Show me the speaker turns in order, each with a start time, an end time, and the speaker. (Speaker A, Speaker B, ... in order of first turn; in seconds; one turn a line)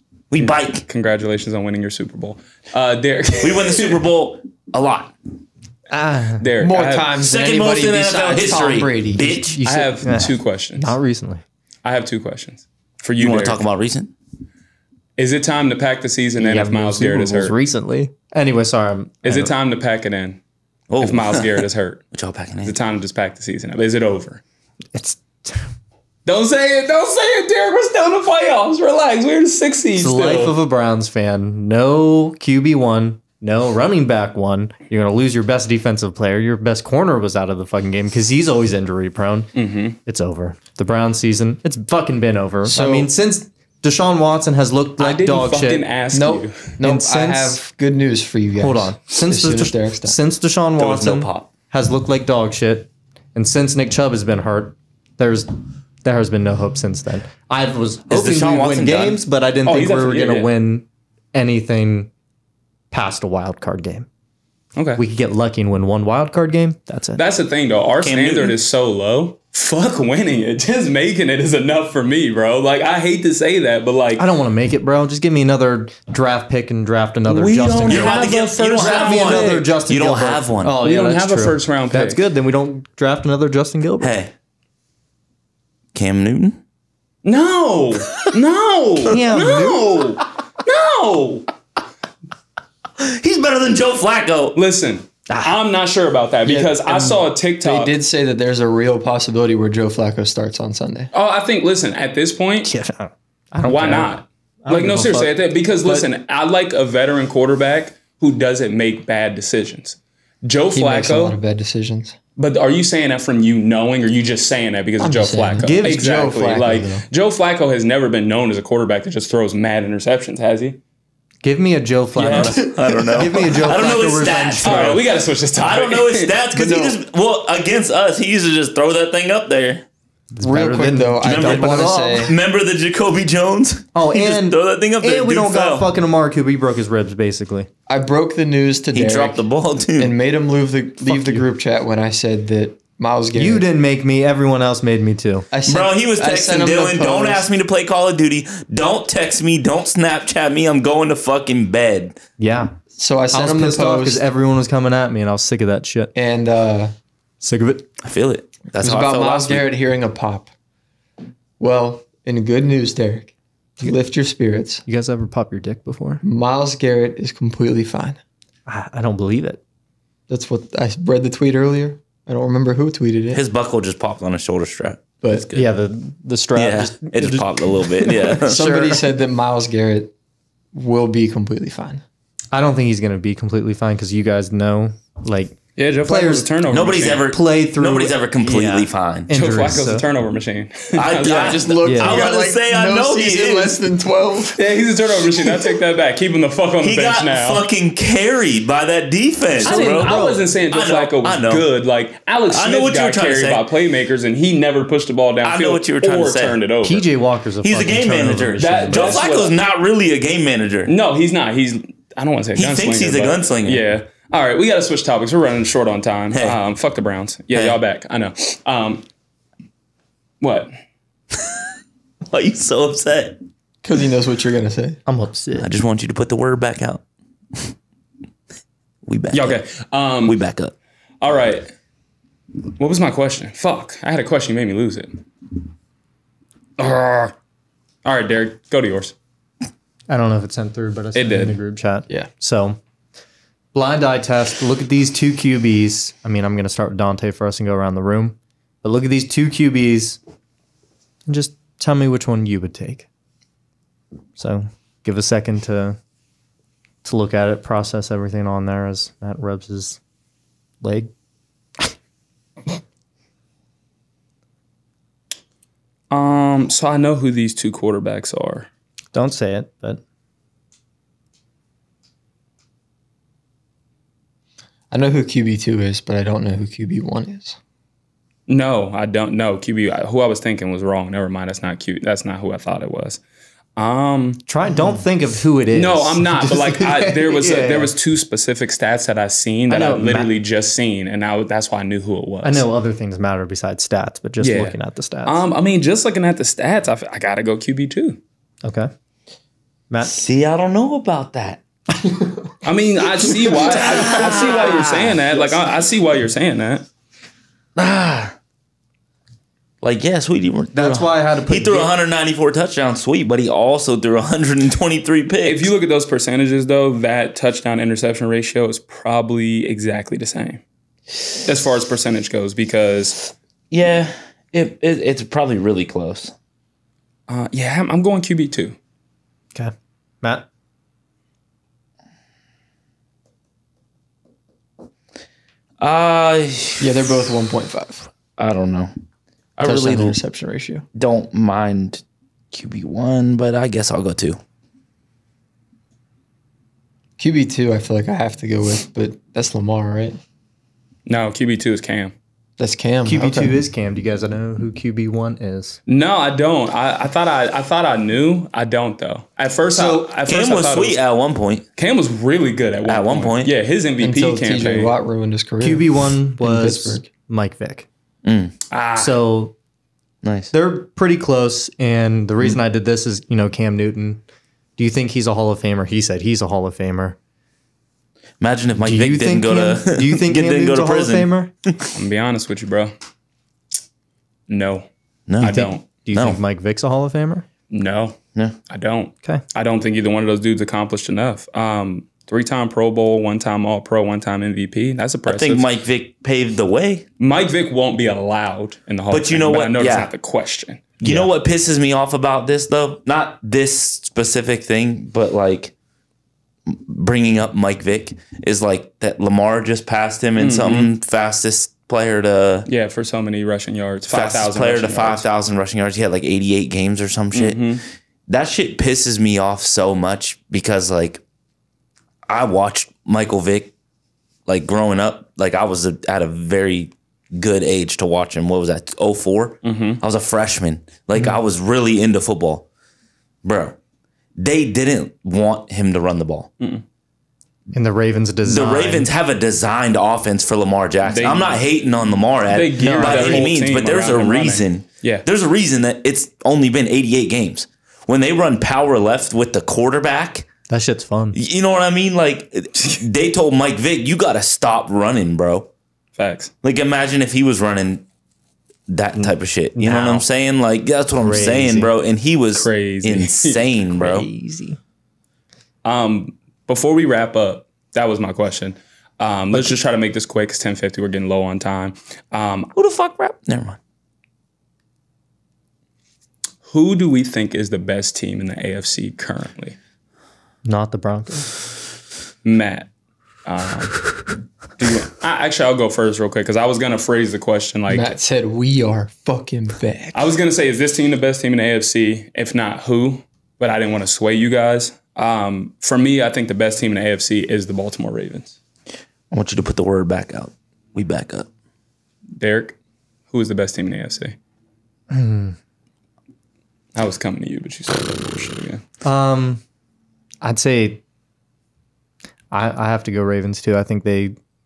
Speaker A: 0.3-0.8
Speaker B: 0.9-4.0
Speaker A: 3.4-5.1
Speaker C: 5.9-6.5
Speaker B: 6.4-7.1
Speaker D: 6.6-9.4
Speaker A: 7.2-9.6
Speaker C: 9.5-11.4
Speaker B: 9.6-10.9
Speaker B: 11.8-13.6
Speaker A: 13.2-14.1
Speaker B: 15.2-17.5
Speaker C: 16.4-19.5
Speaker B: 19.2-20.4
Speaker A: 20.9-22.8
Speaker B: 21.0-22.0
Speaker B: 22.6-24.4
Speaker C: 24.9-25.7
Speaker B: 26.2-30.5
Speaker C: 29.9-39.5
Speaker B: 39.5-40.0
Speaker C: 40.0-45.8
Speaker D: 42.6-43.1
Speaker B: 45.0-46.7
Speaker D: 46.1-50.2
Speaker C: 46.8-47.6
Speaker C: 48.6-55.5
Speaker A: 50.8-51.5
Speaker C: 56.0-62.1
Speaker A: 58.1-59.2
Speaker B: 59.7-60.5
Speaker C: 62.9-64.1
Speaker B: 64.8-65.0
Speaker C: 65.0-67.2
Speaker B: 67.2-74.2
Speaker A: 68.0-68.6
Speaker C: 74.2-84.1
Speaker B: 77.3-79.6
Speaker A: 77.8-80.8
Speaker B: 80.8-82.2
Speaker A: 84.0-84.3
Speaker A: 85.9-86.6
Speaker B: 87.2-91.5
Speaker C: 89.1-90.2
Speaker A: 93.0-94.6
Speaker B: 94.5-97.9
Speaker D: 96.4-101.1
Speaker B: 101.1-102.7
Speaker C: 102.6-106.0
Speaker B: 103.6-111.4
Speaker D: 110.7-112.2
Speaker B: 112.4-120.8
Speaker D: 115.0-117.0
Speaker C: 115.6-116.2
Speaker C: 121.4-125.0
Speaker B: 122.2-122.6
Speaker A: 122.3-129.8
Speaker B: 124.6-126.3
Speaker D: 126.5-127.0
Speaker C: 130.3-132.3
Speaker D: 130.4-132.3
Speaker A: 131.2-135.9
Speaker C: 133.9-137.7
Speaker D: 137.9-139.4
Speaker A: 138.9-140.1
Speaker D: 140.0-143.6
Speaker C: 141.0-141.4
Speaker C: 143.3-145.5
Speaker D: 145.5-147.4
Speaker A: 145.7-152.2
Speaker C: 152.4-152.7
Speaker D: 152.9-154.2
Speaker C: 153.3-156.1
Speaker D: 156.1-156.9
Speaker C: 157.4-157.9
Speaker A: 158.0-159.7
Speaker D: 158.8-160.5
Speaker D: 161.6-164.8
Speaker C: 164.8-166.2
Speaker D: 166.2-168.2
Speaker C: 168.7-169.6
Speaker D: 170.3-173.4
Speaker A: 173.3-175.7
Speaker C: 175.5-178.9
Speaker A: 176.5-178.9
Speaker D: 178.5-180.1
Speaker D: 180.7-182.0
Speaker C: 182.5-186.5
Speaker B: 185.8-187.2
Speaker A: 186.7-189.3
Speaker C: 187.3-190.0
Speaker B: 189.3-191.6
Speaker A: 190.9-193.8
Speaker D: 191.2-194.7
Speaker C: 191.8-192.2
Speaker B: 194.6-197.6
Speaker A: 196.8-201.7
Speaker C: 199.6-200.4
Speaker B: 199.6-207.0
Speaker A: 202.5-203.7
Speaker A: 205.4-206.6
Speaker C: 206.8-209.2
Speaker A: 207.6-210.9
Speaker B: 208.6-209.5
Speaker B: 210.9-219.0
Speaker A: 212.6-213.8
Speaker A: 216.3-216.6
Speaker A: 217.5-217.8
Speaker B: 220.4-220.7
Speaker A: 222.3-223.4
Speaker D: 223.8-225.0
Speaker C: 225.1-225.7
Speaker A: 225.6-227.0
Speaker A: 229.0-229.6
Speaker B: 229.3-230.3
Speaker A: 230.2-230.7
Speaker B: 231.2-231.7
Speaker B: 232.8-235.2
Speaker B: 236.8-237.3
Speaker B: 238.0-239.1
Speaker C: 240.1-242.8
Speaker B: 241.1-241.6
Speaker C: 243.7-250.2
Speaker C: 251.3-253.1
Speaker C: 254.4-256.0
Speaker C: 257.0-260.0
Speaker C: 260.8-261.1
Speaker B: 266.1-268.7
Speaker C: 269.1-270.0
Speaker D: 274.9-277.6
Speaker B: 278.5-283.2
Speaker B: 283.8-284.4
Speaker C: 284.5-287.9
Speaker B: 285.7-292.7
Speaker C: 289.7-290.3
Speaker C: 292.4-295.4
Speaker B: 294.4-298.2
Speaker C: 298.6-298.9
Speaker A: 300.0-301.6
Speaker B: 302.6-306.8
Speaker A: 303.6-305.2
Speaker C: 303.6-305.5
Speaker A: 307.8-308.3
Speaker A: 309.8-315.7
Speaker C: 310.7-311.9
Speaker B: 315.4-320.6
Speaker B: 321.4-323.3
Speaker A: 323.7-326.3
Speaker B: 327.3-328.8
Speaker C: 329.5-330.4
Speaker A: 335.8-337.1
Speaker D: 336.8-338.1
Speaker A: 338.4-338.9
Speaker A: 339.6-340.2
Speaker D: 339.6-340.8
Speaker A: 340.9-344.4
Speaker D: 347.2-350.2
Speaker B: 351.1-352.1
Speaker D: 352.6-353.6
Speaker C: 353.0-355.8
Speaker B: 355.9-361.0
Speaker A: 360.2-361.6
Speaker B: 361.8-364.9
Speaker A: 362.9-363.5
Speaker D: 364.0-367.1
Speaker C: 365.6-367.9
Speaker A: 368.2-368.5
Speaker B: 368.7-369.2
Speaker C: 369.0-369.5
Speaker A: 370.2-370.5
Speaker C: 370.5-374.2
Speaker C: 374.8-377.2
Speaker A: 378.4-381.9
Speaker C: 378.8-381.5
Speaker B: 381.9-382.9
Speaker B: 384.5-384.9
Speaker A: 385.3-386.4
Speaker B: 385.4-385.8
Speaker C: 385.4-387.4
Speaker B: 387.7-388.2
Speaker B: 388.7-395.6
Speaker A: 395.2-397.1
Speaker B: 397.2-400.8
Speaker A: 399.1-400.1
Speaker A: 401.0-405.7
Speaker C: 401.0-401.3
Speaker A: 406.7-412.7
Speaker B: 410.4-410.9
Speaker B: 412.6-415.2
Speaker A: 414.1-421.2
Speaker B: 417.3-417.8
Speaker A: 422.3-423.7
Speaker A: 424.4-432.6
Speaker B: 429.6-430.0
Speaker A: 433.4-433.8
Speaker A: 434.4-436.5
Speaker C: 437.7-439.1
Speaker A: 438.4-450.5
Speaker B: 441.1-441.6
Speaker B: 442.5-445.2
Speaker C: 442.8-443.4
Speaker C: 450.7-451.4
Speaker A: 451.3-455.7
Speaker B: 456.2-456.5
Speaker A: 456.6-458.0
Speaker A: 458.9-464.3
Speaker C: 459.1-460.2
Speaker C: 461.2-461.9
Speaker B: 462.5-463.6
Speaker C: 463.9-464.8
Speaker B: 465.8-472.7
Speaker A: 472.8-473.8
Speaker B: 476.6-479.8
Speaker C: 480.6-481.5
Speaker B: 482.4-482.9
Speaker B: 483.4-484.0
Speaker B: 484.8-488.1
Speaker D: 487.9-490.2
Speaker B: 490.1-498.6
Speaker A: 499.3-501.5
Speaker B: 502.4-502.8
Speaker B: 503.3-504.4
Speaker C: 505.1-505.6
Speaker B: 506.9-508.8
Speaker C: 509.0-509.6
Speaker C: 510.4-511.0
Speaker C: 512.5-514.4